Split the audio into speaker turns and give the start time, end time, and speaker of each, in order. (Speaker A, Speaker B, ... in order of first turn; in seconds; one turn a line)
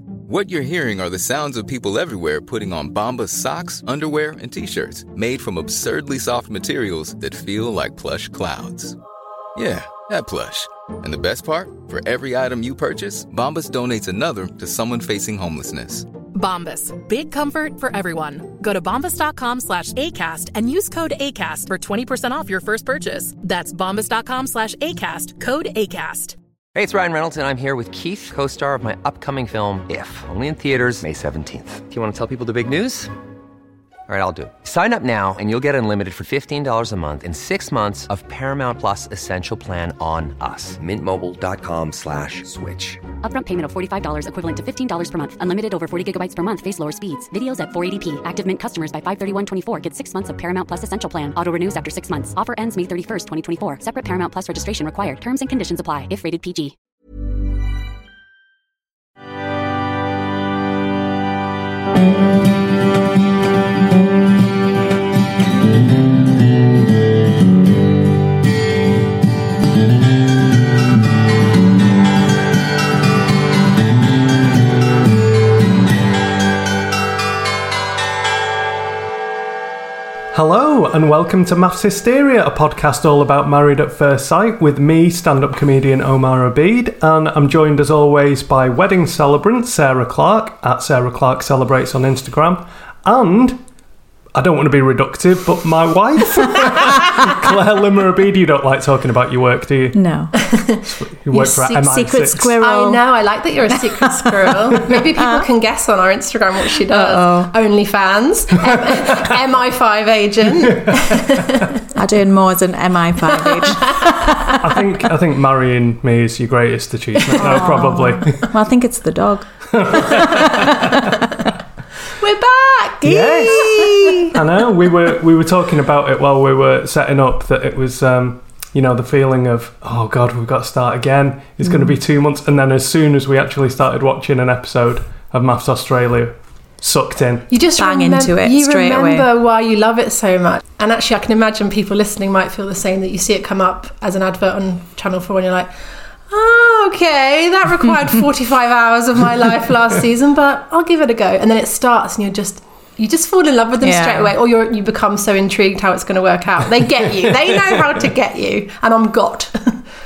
Speaker A: 0.3-9.0
Speaker A: 9.6-16.1
Speaker B: 16.3-26.4
Speaker C: 26.8-33.1
Speaker C: 34.1-43.0
Speaker D: 43.2-56.7
Speaker E: 80.3-93.6
Speaker E: 94.3-100.0
Speaker F: 99.9-100.3
Speaker G: 100.5-101.8
Speaker E: 101.1-102.5
Speaker F: 101.8-103.0
Speaker G: 102.6-111.8
Speaker F: 105.2-105.5
Speaker F: 106.9-107.5
Speaker F: 112.0-114.5
Speaker G: 113.5-114.5
Speaker E: 114.6-118.5
Speaker G: 117.3-117.6
Speaker F: 117.3-121.1
Speaker E: 119.7-120.8
Speaker G: 122.2-124.0
Speaker F: 123.0-124.3
Speaker E: 123.0-123.7
Speaker E: 124.3-137.5
Speaker F: 131.6-131.9
Speaker G: 137.5-145.7
Speaker F: 137.8-139.3
Speaker G: 146.3-159.8
Speaker F: 153.8-154.3
Speaker E: 157.2-157.9